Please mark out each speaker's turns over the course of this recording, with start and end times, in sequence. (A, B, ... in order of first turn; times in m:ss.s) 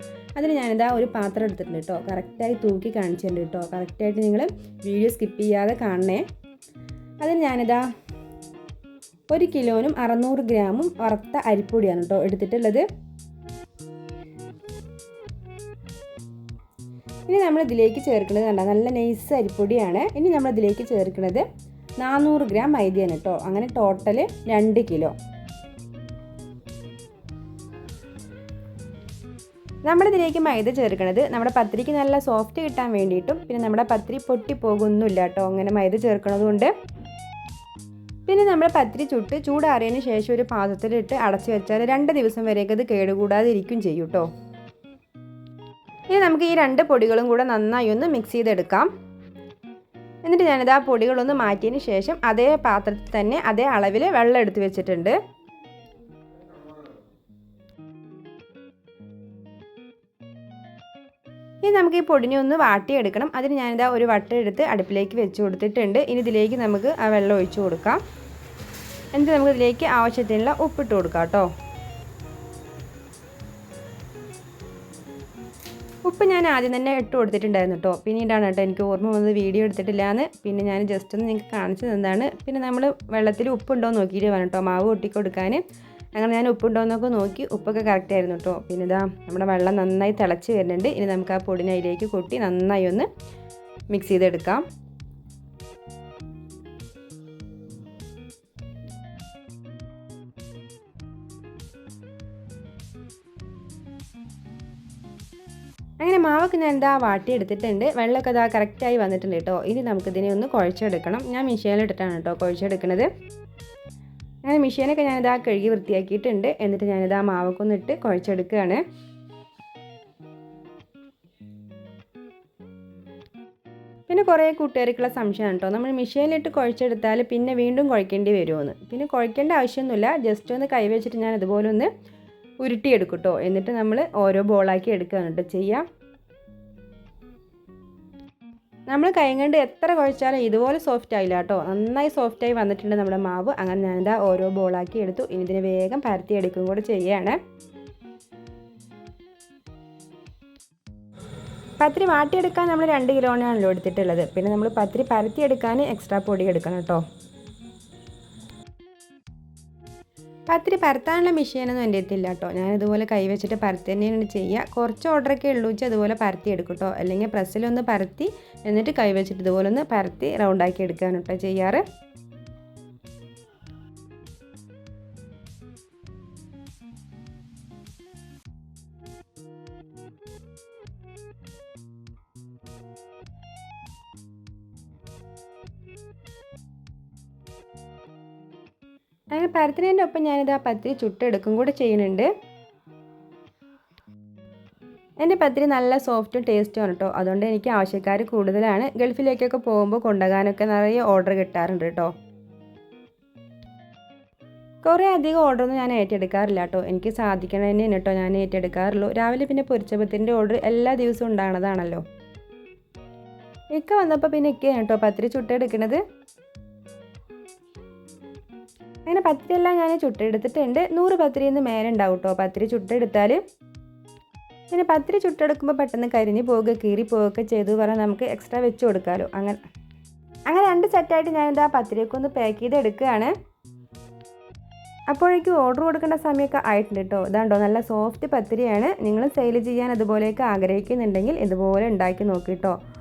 0:00.4-0:06.2 A
0:07.2-0:07.9 A
0:09.3-0:12.8 A
0:17.3-0:21.4 A
0:22.0-0:25.1 A
0:29.9-0:36.7 A
0:38.3-0:44.3 A
0:46.1-0:48.9 A
0:50.2-0:55.2 A
1:01.6-1:08.0 A
1:09.1-1:11.5 A
1:16.0-1:25.6 A
1:26.1-1:33.1 A
1:33.9-1:34.6 A
1:46.0-1:53.1 A
1:54.4-1:58.8 A
2:04.1-2:11.9 A
2:12.6-2:15.8 A
2:18.9-2:27.4 A
2:31.8-2:37.0 A
2:40.5-2:51.8 A
3:09.3-3:12.3 A
3:15.2-3:22.1 A
3:24.8-3:32.0 A
3:33.7-3:36.0 A
3:39.0-3:43.4 A
3:44.7-3:49.6 A
3:50.5-3:53.3 A
3:55.1-4:02.8 A